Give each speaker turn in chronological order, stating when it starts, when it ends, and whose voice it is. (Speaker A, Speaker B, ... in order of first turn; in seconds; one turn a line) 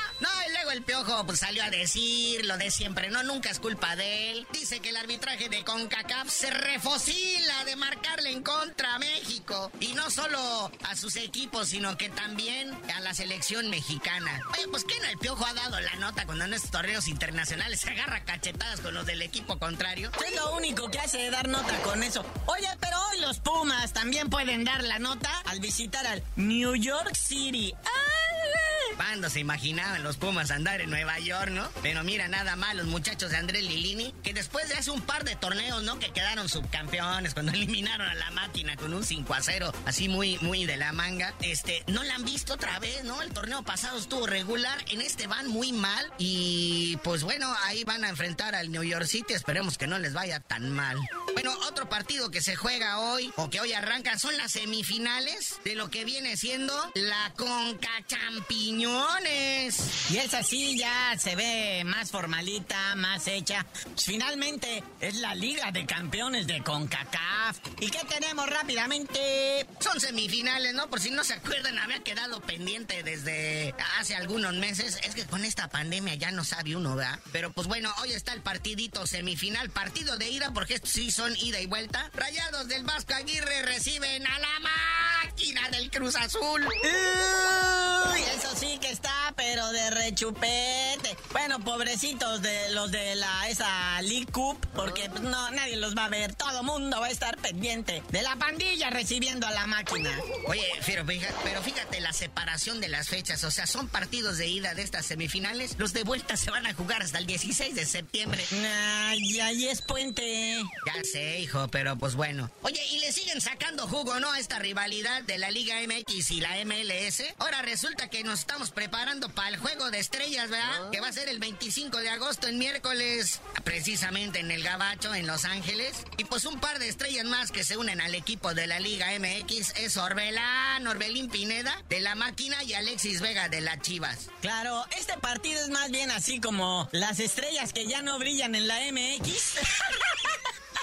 Speaker A: 0.2-20.1
Speaker B: 20.2-28.9
Speaker A: 29.0-59.9
Speaker B: 60.1-69.7
Speaker A: 69.8-86.8
Speaker B: 86.8-100.2
Speaker A: 100.5-108.5
Speaker B: 108.5-110.7
Speaker A: 110.8-134.3
Speaker B: 134.4-140.4